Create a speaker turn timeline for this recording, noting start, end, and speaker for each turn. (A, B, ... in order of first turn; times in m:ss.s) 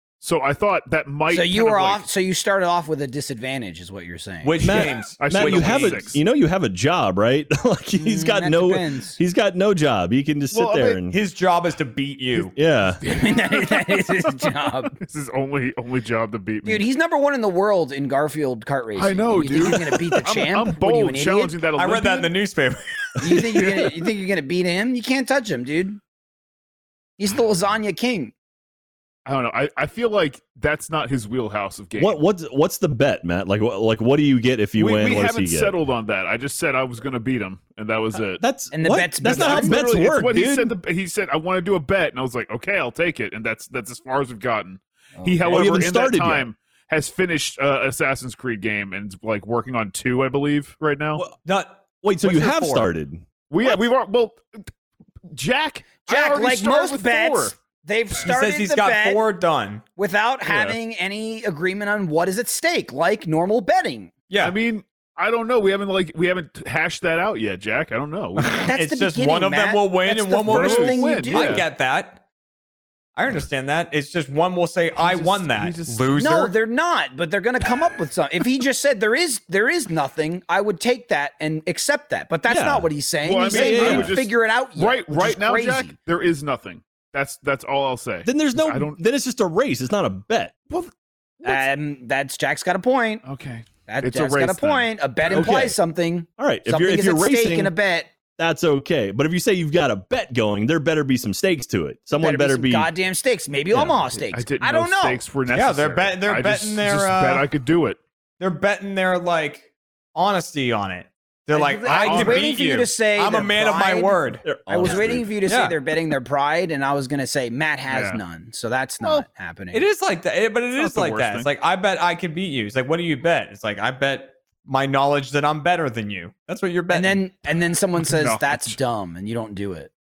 0:00.2-0:02.0 A
0:01.3-0:04.6 B
0:04.4-0:06.1 C
0:04.6-0:11.2 D
0:05.2-0:06.2 A
0:08.0-0:09.2 B
0:10.5-0:11.0 A
0:11.1-0:12.6 C
0:12.5-0:13.0 D
0:13.0-0:15.0 B
0:15.0-0:16.9 A
0:16.6-0:21.6 B
0:19.0-0:22.3 A
0:21.8-0:23.7 C
0:23.2-0:26.0 B
0:23.6-0:23.9 A
0:27.2-0:28.3 B
0:29.2-0:32.2 A
0:32.0-0:35.7 D
0:34.8-0:38.4 A
0:38.4-0:40.7 D
0:38.7-0:39.8 B
0:39.2-0:51.2 A
0:45.2-0:45.7 B
0:45.5-0:46.5 D
0:51.4-0:52.9 C
0:52.0-0:53.2 D
0:53.5-0:54.4 A
0:55.3-0:57.5 A
0:56.1-0:59.2 B
0:58.2-0:59.8 C
1:00.0-1:04.1 B
1:00.5-1:00.8 A
1:04.3-1:04.6 C
1:04.4-1:08.6 A
1:08.5-1:12.2 C
1:08.5-1:11.6 B
1:10.4-1:11.7 A
1:13.2-1:16.5 C
1:15.0-1:16.1 A
1:16.1-1:26.0 B
1:22.5-1:22.9 D
1:23.2-1:29.0 A
1:23.4-1:24.2 D
1:28.2-1:30.5 D
1:30.7-1:31.7 A
1:31.4-1:33.2 B
1:33.2-1:35.6 A
1:33.9-1:38.1 B
1:35.3-1:35.8 D
1:36.4-1:37.8 D
1:38.4-1:42.9 D
1:42.2-1:45.2 B
1:43.7-1:44.0 D
1:44.3-1:48.0 A
1:45.5-1:47.5 C
1:48.4-1:55.8 C
1:51.5-1:59.9 B
1:51.9-1:52.5 A
1:54.4-1:55.3 D
1:57.9-1:58.2 A
1:59.7-2:07.2 C
2:00.8-2:01.5 A
2:06.9-2:09.9 B
2:08.0-2:08.8 A